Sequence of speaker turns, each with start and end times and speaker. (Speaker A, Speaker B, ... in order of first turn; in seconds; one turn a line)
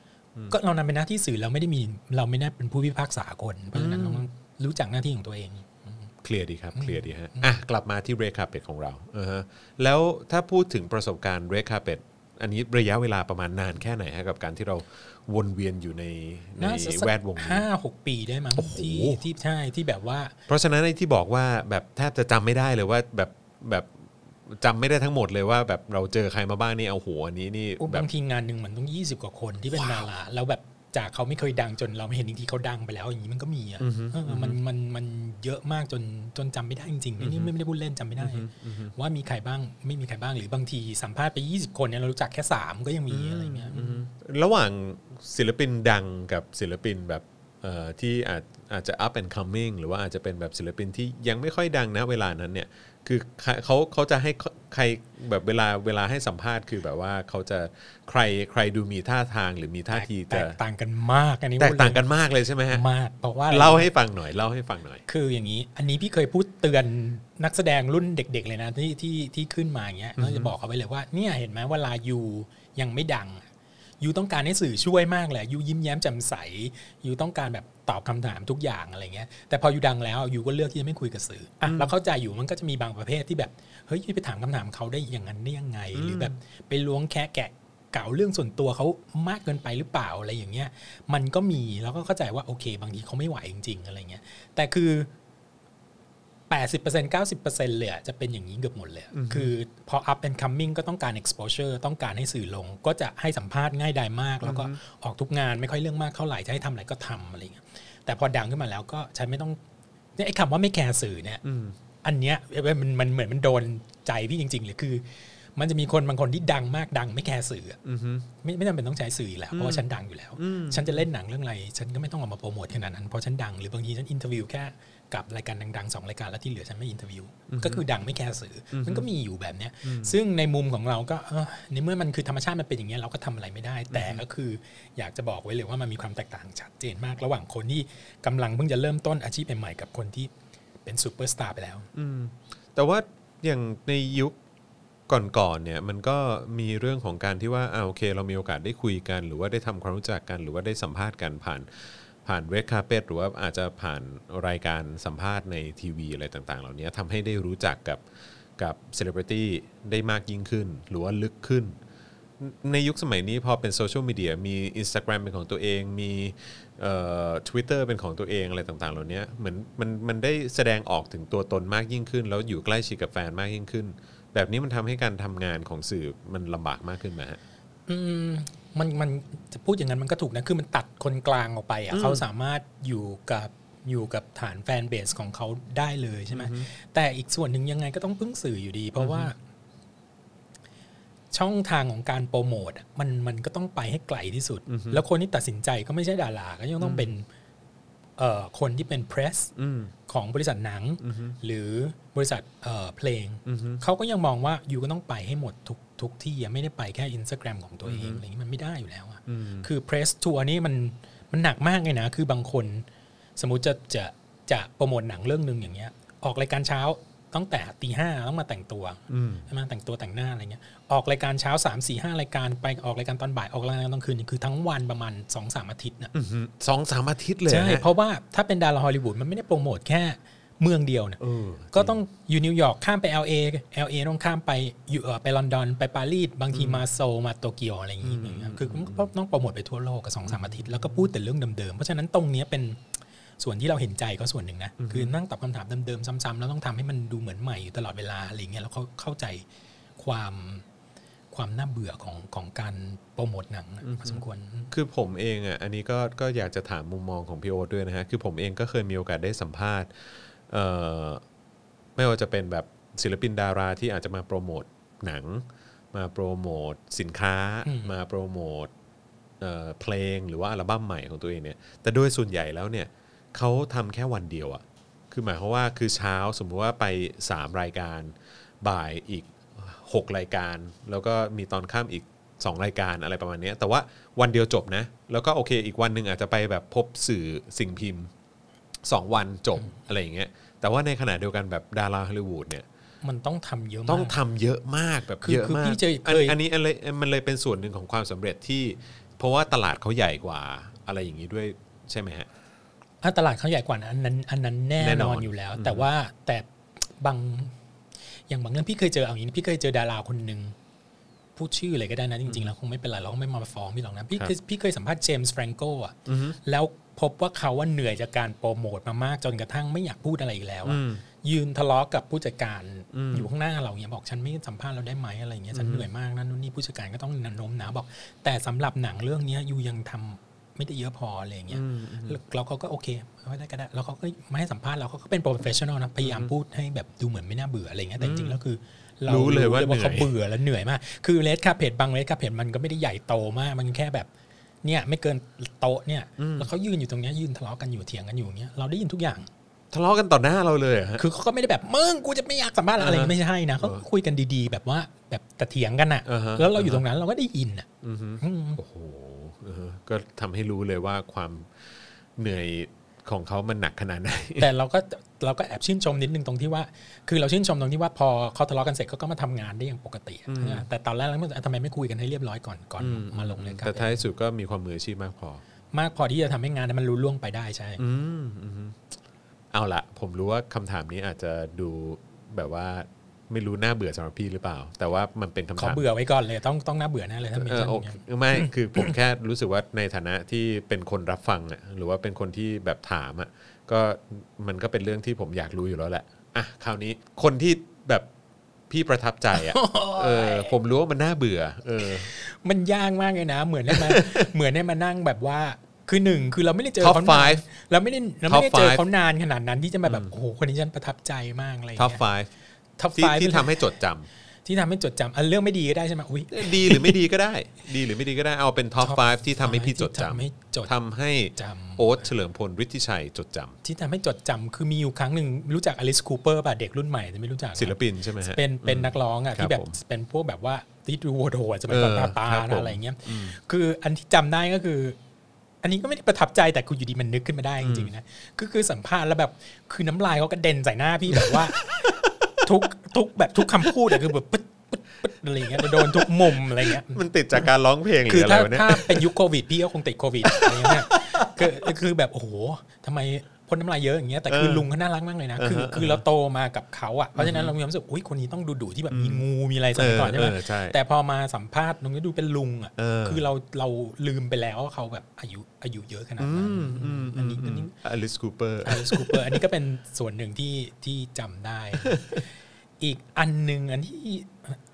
Speaker A: 0.5-6.1
Speaker B: 3.7-4.2
Speaker B: 6.2-17.7
Speaker A: 6.8-7.5
Speaker A: 16.6-20.4
Speaker B: 18.5-19.2
Speaker B: 20.5-28.1
Speaker A: 27.8-44.1
Speaker B: 29.7-30.1
Speaker B: 33.8-34.6
Speaker B: 37.2-37.5
Speaker B: 38.2-38.9
Speaker B: 43.1-60.6
Speaker A: 59.9-62.0
Speaker B: 61.6-62.9
Speaker A: 62.7-63.9
Speaker B: 63.5-65.0
Speaker A: 65.1-73.5
Speaker B: 70.2-70.5
Speaker A: 74.0-95.1
Speaker B: 81.7-81.9
Speaker B: 86.0-86.3
Speaker A: 96.5-109.6
Speaker B: 99.1-99.5
Speaker B: 104.4-104.8
Speaker A: 110.2-111.4
Speaker B: 111.4-111.8
Speaker A: 112.0-115.0
Speaker A: 115.6-117.8
Speaker B: 117.8-118.3
Speaker A: 118.4-140.3
Speaker B: 119.5-119.9
Speaker B: 120.4-121.1
Speaker B: 127.5-127.8
Speaker B: 128.7-129.1
Speaker B: 129.8-130.2
Speaker B: 133.9-134.2
Speaker A: 140.8-141.9
Speaker B: 141.9-144.4
Speaker B: 145.1-151.7
Speaker B: 152.2-158.0
Speaker B: 158.6-161.8
Speaker B: 162.4-177.4
Speaker A: 177.9-189.4
Speaker B: 181.9-182.2
Speaker B: 186.3-186.7
Speaker B: 189.0-189.3
Speaker A: 191.3-197.3
Speaker B: 194.7-195.0
Speaker B: 196.8-197.1
Speaker A: 198.2-199.5
Speaker B: 199.6-199.9
Speaker A: 200.1-226.1
Speaker B: 201.0-201.4
Speaker B: 203.5-203.8
Speaker B: 207.8-208.2
Speaker B: 209.3-209.7
Speaker B: 219.1-219.5
Speaker B: 226.1-227.8
Speaker A: 227.5-231.2
Speaker B: 231.2-232.0
Speaker A: 231.7-242.8
Speaker B: 236.5-236.8
Speaker B: 238.0-239.1
Speaker B: 240.3-241.1
Speaker A: 243.4-249.4
Speaker B: 244.8-245.1
Speaker A: 250.0-250.6
Speaker A: 251.3-254.7
Speaker B: 253.8-261.2
Speaker B: 262.0-268.7
Speaker A: 267.6-267.9
Speaker B: 269.4-288.1
Speaker B: 288.9-292.7
Speaker A: 293.0-294.2
Speaker B: 293.9-302.3
Speaker A: 295.2-296.4
Speaker A: 303.0-306.5
Speaker B: 304.8-305.9
Speaker A: 307.0-307.6
Speaker A: 308.3-310.6
Speaker A: 311.4-344.1
Speaker B: 316.1-316.4
Speaker B: 320.7-321.0
Speaker B: 322.9-323.3
Speaker B: 325.5-325.9
Speaker B: 331.5-332.2
Speaker B: 336.0-336.3
Speaker B: 338.0-338.4
Speaker B: 339.1-340.1
Speaker A: 344.6-349.3
Speaker B: 346.2-346.5
Speaker B: 349.7-351.0
Speaker A: 351.0-357.7
Speaker B: 352.8-353.8
Speaker B: 356.1-356.8
Speaker B: 357.8-364.5
Speaker A: 358.2-358.6
Speaker A: 364.4-374.0
Speaker B: 370.3-370.7
Speaker B: 372.8-375.4
Speaker A: 375.7-377.8
Speaker B: 377.8-378.8
Speaker B: 379.5-385.8
Speaker A: 385.6-388.9
Speaker B: 387.3-398.1
Speaker B: 398.7-402.1
Speaker A: 399.3-400.5
Speaker A: 401.8-412.0
Speaker B: 403.7-404.3
Speaker B: 406.8-407.4
Speaker B: 408.3-408.8
Speaker B: 409.9-410.1
Speaker B: 411.8-412.3
Speaker A: 412.8-413.7
Speaker B: 413.0-414.1
Speaker A: 414.4-417.0
Speaker B: 416.3-423.6
Speaker A: 418.8-420.7
Speaker A: 421.4-422.1
Speaker A: 423.6-435.0
Speaker B: 427.6-429.8
Speaker B: 431.7-433.4
Speaker A: 435.6-447.5
Speaker B: 437.6-437.9
Speaker B: 441.1-442.4
Speaker B: 443.6-443.9
Speaker B: 445.6-449.1
Speaker A: 448.1-467.7
Speaker B: 450.3-451.7
Speaker B: 454.3-454.7
Speaker B: 455.4-456.0
Speaker B: 457.2-457.5
Speaker B: 458.9-460.8
Speaker B: 462.8-463.2
Speaker B: 466.2-469.4
Speaker A: 468.6-472.0
Speaker B: 471.8-472.2
Speaker A: 472.8-474.6